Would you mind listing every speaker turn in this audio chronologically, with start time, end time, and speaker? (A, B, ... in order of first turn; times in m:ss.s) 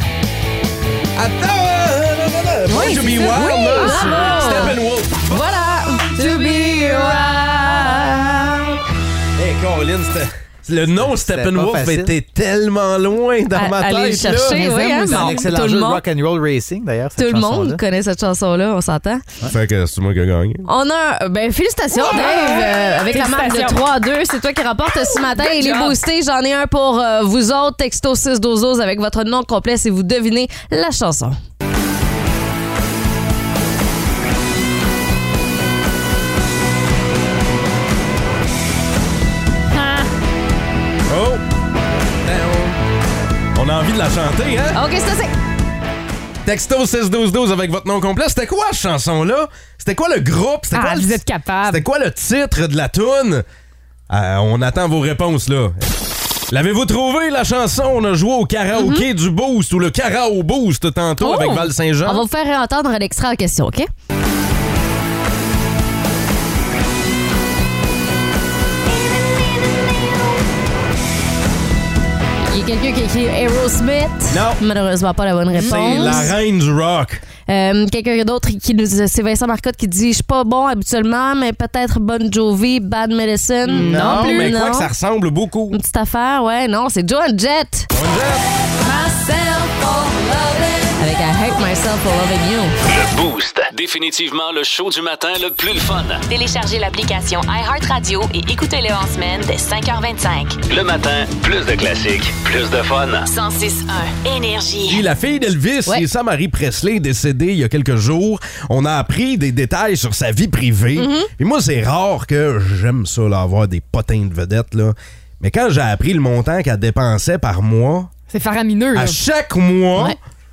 0:01.2-0:05.4 A
0:02.7-0:04.7 B
0:03.3-0:08.8 C
0:06.2-0:07.1 B
0:06.4-0:07.0 A
0:09.4-0:14.8 A
0:11.1-0:12.1 D
0:13.5-0:16.0 C
0:14.6-0:15.4 B
0:15.1-0:17.8 D
0:17.2-0:19.2 C
0:19.5-0:20.7 A
0:20.6-0:31.4 C
0:21.9-0:23.8 B
0:25.1-0:25.9 B
0:41.1-0:41.4 A
0:42.2-0:42.8 A
0:43.5-0:44.8 A
0:44.7-0:45.3 C
0:46.4-0:53.4 A
0:50.7-0:51.8 B
0:54.1-0:55.9 A
0:56.5-1:02.2 A
0:58.7-0:59.0 C
1:01.2-1:03.9 C
1:12.5-1:16.3 C
1:14.3-1:14.6 A
1:15.6-1:16.3 B
1:15.6-1:17.2 A
1:17.5-1:24.9 C
1:23.7-1:24.5 B
1:23.7-1:25.8 A
1:25.7-1:27.9 C
1:27.9-1:28.4 A
1:28.9-1:32.7 C
1:32.8-1:36.2 E
1:36.3-1:40.6 F
1:40.7-1:43.3 E
1:43.3-1:45.0 F
1:44.9-1:58.1 A
1:51.0-1:51.3 C
1:58.3-1:59.2 B
1:58.9-2:00.2 A